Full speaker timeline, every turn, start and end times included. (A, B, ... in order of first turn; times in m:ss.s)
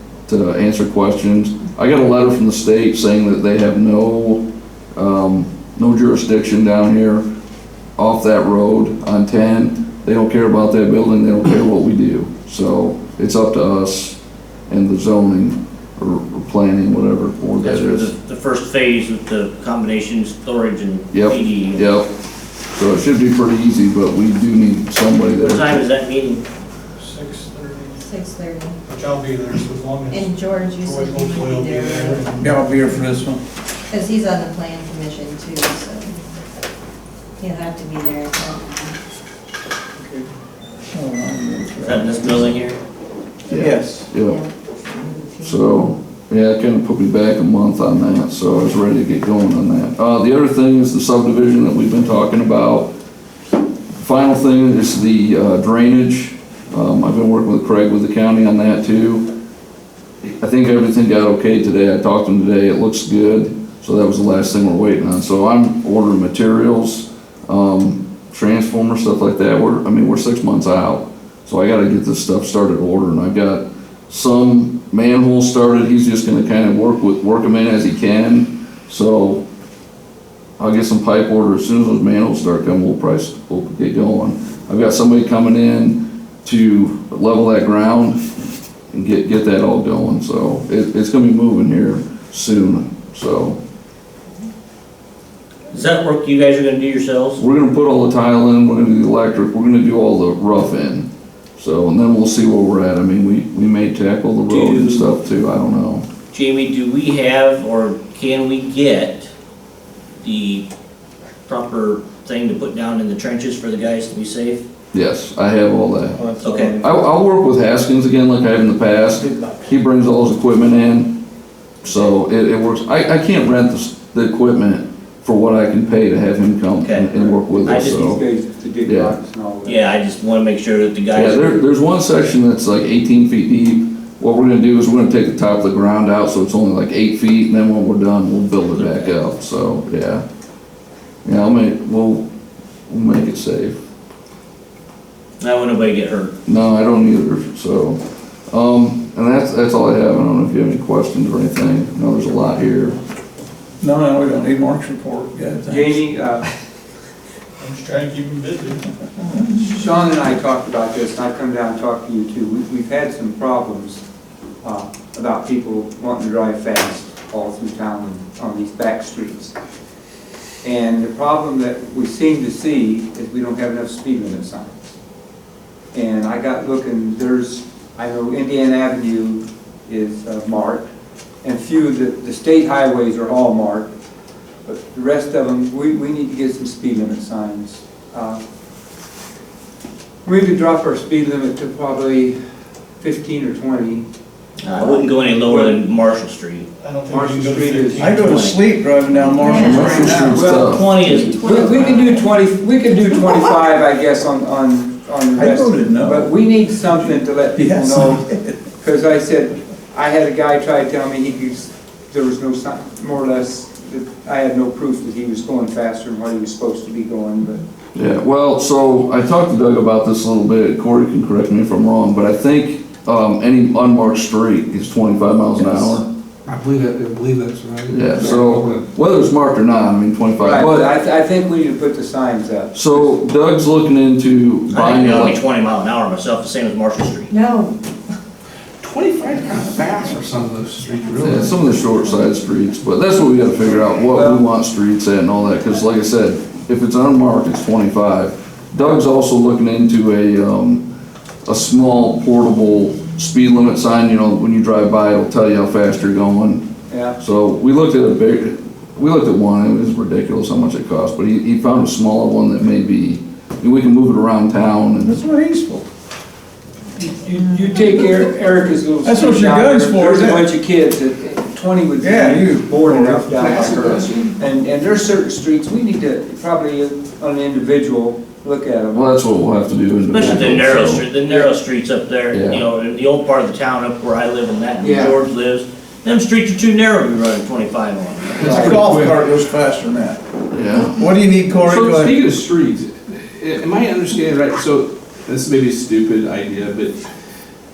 0:00.3-0:04.4 A
0:05.0-0:07.2 A
0:08.0-0:14.2 A
0:14.7-0:18.1 A
0:17.6-0:21.9 B
0:21.1-0:22.1 A
0:22.7-0:25.7 A
0:25.4-0:26.4 B
0:27.0-0:28.0 C
0:28.0-0:28.8 D
0:28.9-0:33.1 C
0:30.1-0:32.3 D
0:32.4-0:33.4 E
0:33.9-0:36.2 D
0:37.4-0:39.0 D
0:40.9-0:42.5 E
0:41.8-0:42.8 B
0:43.5-0:44.4 A
0:43.5-0:44.1 E
0:43.6-0:45.8 D
0:45.4-0:52.9 A
0:54.0-0:59.3 A
1:00.2-1:19.4 A
1:20.6-1:28.2 A
1:28.9-1:33.6 A
1:35.7-1:37.4 B
1:37.4-1:46.1 A
1:44.5-1:45.1 B
1:46.3-1:49.3 B
1:50.2-1:50.7 B
1:51.5-1:54.6 B
1:54.9-1:56.2 A
1:56.2-1:56.8 E
1:56.4-1:56.8 B
1:56.8-2:01.2 A
1:59.3-1:59.7 E
2:01.8-2:08.2 A
2:06.8-2:08.2 B
2:07.1-2:09.8 F
2:08.8-2:09.2 A
2:09.6-2:11.6 B
2:11.1-2:20.2 A
2:18.8-2:19.1 B
2:21.2-2:22.3 A
2:22.9-2:23.8 A
2:25.4-2:26.3 B
2:26.5-2:28.0 A
2:28.5-2:33.0 A
2:33.8-2:36.0 E
2:35.7-2:36.5 F
2:37.6-2:38.9 C
2:39.6-2:44.0 F
2:44.6-2:49.5 F
2:50.6-2:54.9 F
2:55.9-3:00.9 F
3:01.4-3:03.9 F
3:04.6-3:08.4 F
3:10.2-3:12.4 F
3:13.0-3:14.0 F
3:14.6-3:16.7 B
3:14.8-3:15.8 F
3:16.8-3:18.4 C
3:17.1-3:18.3 F
3:18.0-3:20.5 E
3:18.2-3:18.6 B
3:19.3-3:20.2 D
3:19.6-3:20.9 A
3:19.6-3:28.2 F
3:20.4-3:22.2 B
3:21.2-3:21.8 D
3:25.3-3:26.3 E
3:26.9-3:28.6 E
3:28.8-3:37.6 F
3:38.0-3:46.0 A
3:46.6-3:48.7 G
3:47.9-3:50.9 A
3:50.4-3:53.2 F
3:52.7-3:55.4 A
3:54.7-3:57.3 B
3:57.3-3:57.8 D
3:58.8-4:01.7 G
4:01.2-4:10.9 A
4:04.1-4:04.4 F
4:11.4-4:16.7 A
4:16.9-4:17.2 F
4:17.2-4:25.2 A
4:25.0-4:25.9 E
4:27.0-4:39.1 F
4:29.0-4:30.5 E
4:32.0-4:34.2 E
4:38.9-4:41.0 A
4:40.1-4:48.8 B
4:40.2-4:41.5 F
4:42.3-4:42.6 A
4:44.8-4:45.2 F
4:48.4-4:49.2 G
4:48.4-4:48.9 F
4:48.4-4:50.2 E
4:50.5-4:51.0 A
4:50.8-4:52.2 E
4:51.6-4:57.0 G